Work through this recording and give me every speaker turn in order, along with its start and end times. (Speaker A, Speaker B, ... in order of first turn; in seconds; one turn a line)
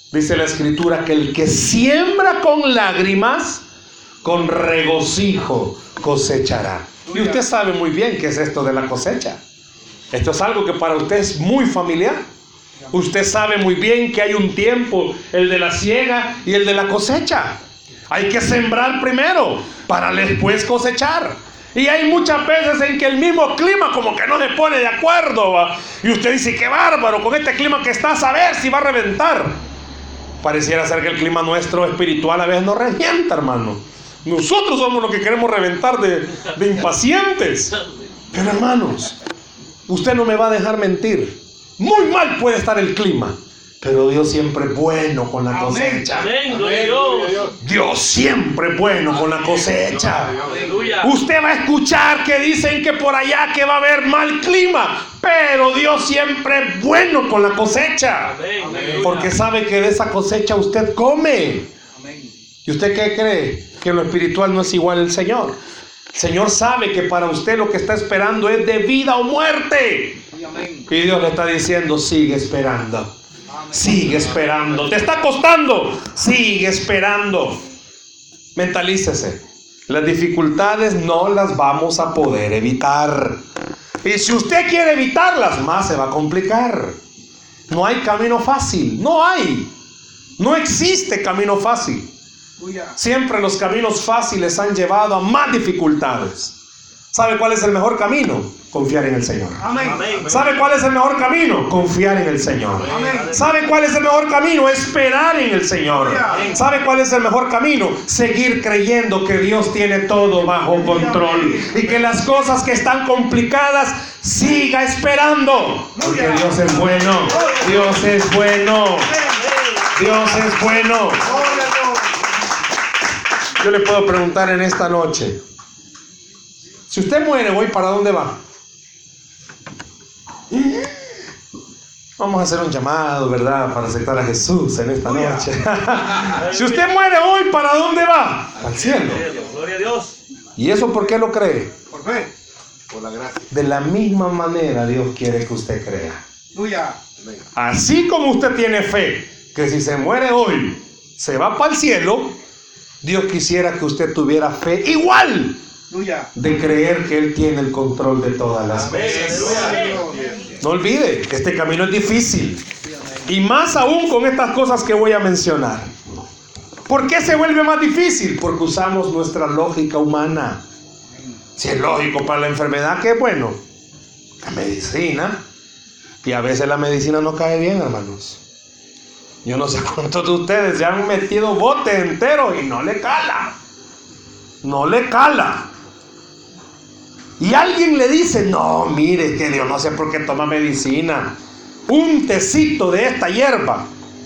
Speaker A: 0.1-3.6
Speaker A: 4.2-9.4
Speaker B: 7.1-7.4
Speaker A: 10.1-12.2
Speaker A: 12.9-29.6
Speaker A: 30.4-37.8
Speaker A: 38.3-39.2
Speaker A: 39.9-46.3
Speaker B: 45.5-46.1
Speaker C: 46.1-47.5
Speaker A: 47.6-50.4
Speaker C: 50.5-51.1
Speaker A: 51.0-58.4
Speaker C: 58.2-59.3
Speaker B: 58.7-59.0
Speaker A: 59.0-61.7
Speaker B: 62.0-62.3
Speaker A: 62.6-65.6
Speaker A: 66.1-70.2
Speaker B: 70.3-70.9
Speaker A: 70.9-73.1
Speaker B: 73.6-74.3
Speaker A: 73.7-77.6
Speaker A: 78.5-83.4
Speaker A: 84.0-87.0
Speaker A: 87.7-89.7
Speaker A: 90.4-92.1
Speaker B: 92.6-93.0
Speaker A: 93.0-96.5
Speaker A: 97.1-119.2
Speaker B: 99.6-100.0
Speaker C: 99.8-100.5
Speaker B: 102.9-103.3
Speaker C: 103.0-103.6
Speaker B: 106.0-106.5
Speaker C: 106.3-106.6
Speaker B: 110.8-111.8
Speaker B: 116.0-117.8
Speaker C: 117.2-117.5
Speaker C: 119.2-120.1
Speaker A: 119.9-121.4
Speaker B: 121.3-122.1
Speaker A: 123.6-125.4
Speaker A: 126.9-128.4
Speaker A: 130.5-130.9
Speaker A: 132.2-139.2
Speaker B: 135.1-135.4
Speaker C: 136.2-136.9
Speaker C: 138.8-140.2
Speaker A: 140.6-141.7
Speaker B: 141.9-142.3
Speaker A: 143.5-146.2
Speaker B: 146.5-147.0
Speaker A: 147.6-152.3
Speaker A: 153.0-155.6
Speaker B: 155.9-156.3
Speaker A: 156.3-159.8
Speaker C: 158.9-160.0
Speaker B: 159.7-160.2
Speaker A: 160.6-162.6
Speaker A: 163.3-166.2
Speaker A: 166.9-170.6
Speaker A: 171.6-173.6
Speaker A: 174.4-175.4
Speaker A: 176.2-178.4
Speaker A: 179.4-183.5
Speaker A: 184.6-185.7
Speaker A: 187.4-193.9